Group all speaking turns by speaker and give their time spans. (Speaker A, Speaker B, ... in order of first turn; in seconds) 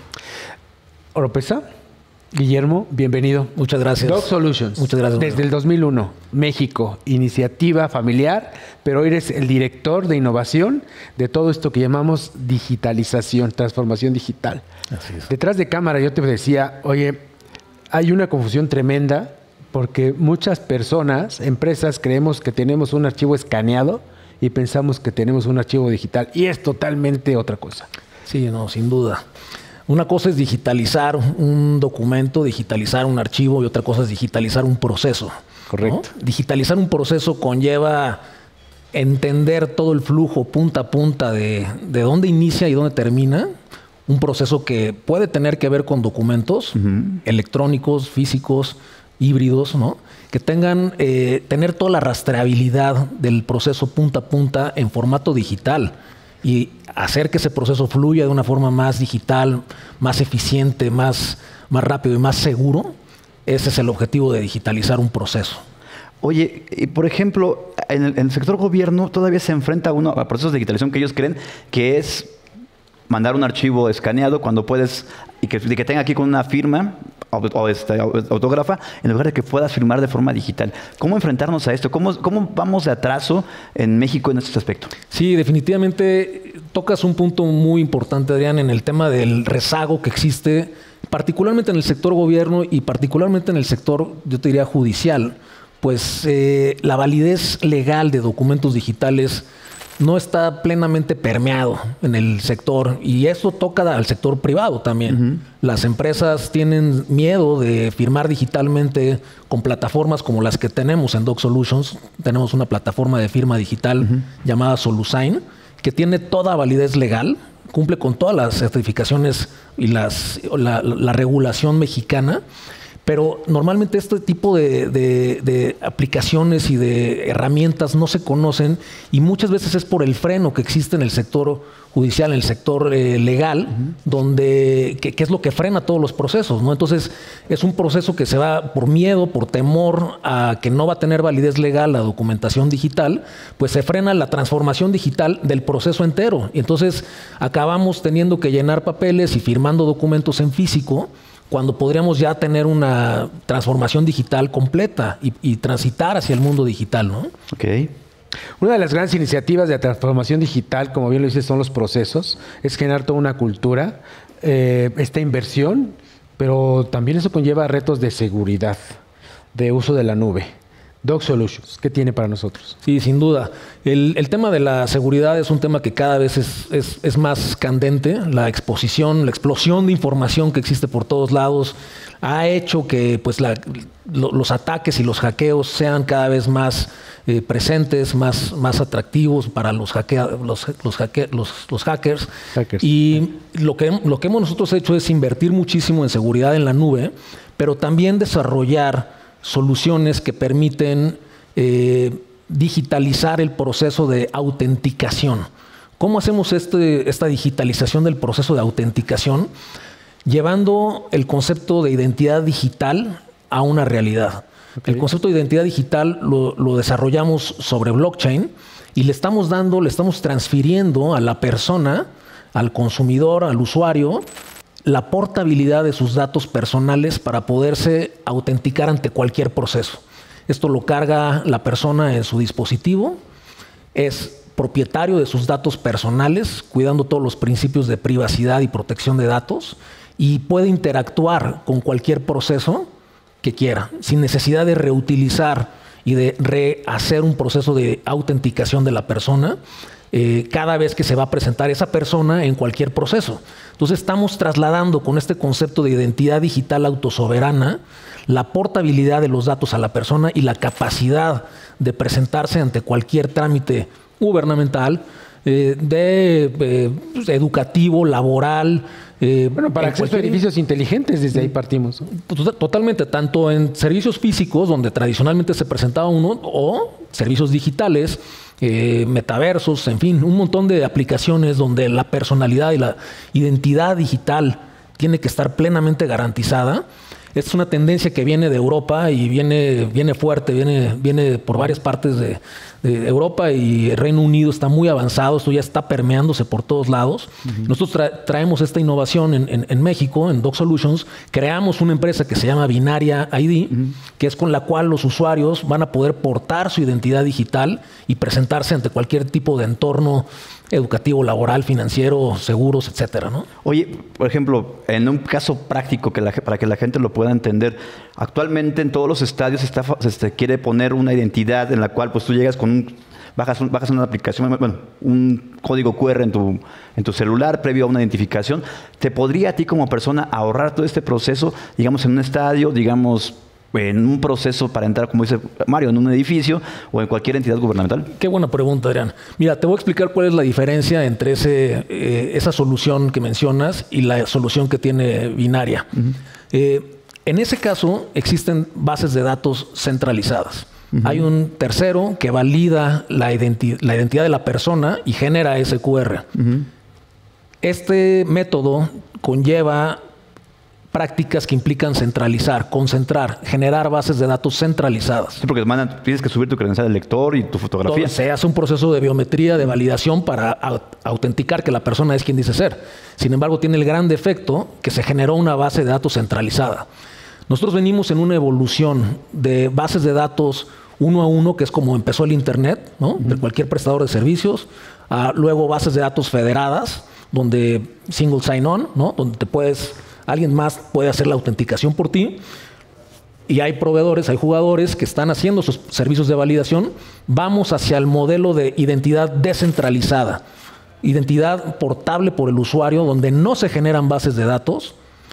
Speaker A: 1.1-1.6, 2.3-14.6, 15.3-17.2, 17.9-27.9, 35.7-36.0, 158.6-169.0, 169.5-170.5, 171.0-172.8, 192.5-192.9, 269.6-272.1
Speaker B: 3.6-5.4, 15.0-15.3, 28.3-29.2, 29.9-38.2, 38.9-43.5, 44.1-55.9, 56.4-62.9, 63.5-65.6, 85.1-99.5, 100.0-122.4, 123.0-157.3, 172.8-192.3, 192.8-205.5, 206.0-209.5, 210.3-224.2, 224.8-233.2, 233.9-242.9, 243.4-249.6, 250.1-270.4, 272.1-286.8, 287.4-313.5, 338.1-346.0, 346.5-356.3, 357.6-360.0, 360.9-365.4, 367.9-376.9, 377.5-392.4, 393.5-400.4, 401.0-404.9
Speaker C: 66.2-72.3, 73.1-84.9, 157.6-157.9, 313.6-338.1, 350.9-351.2, 356.4-356.7, 365.4-368.2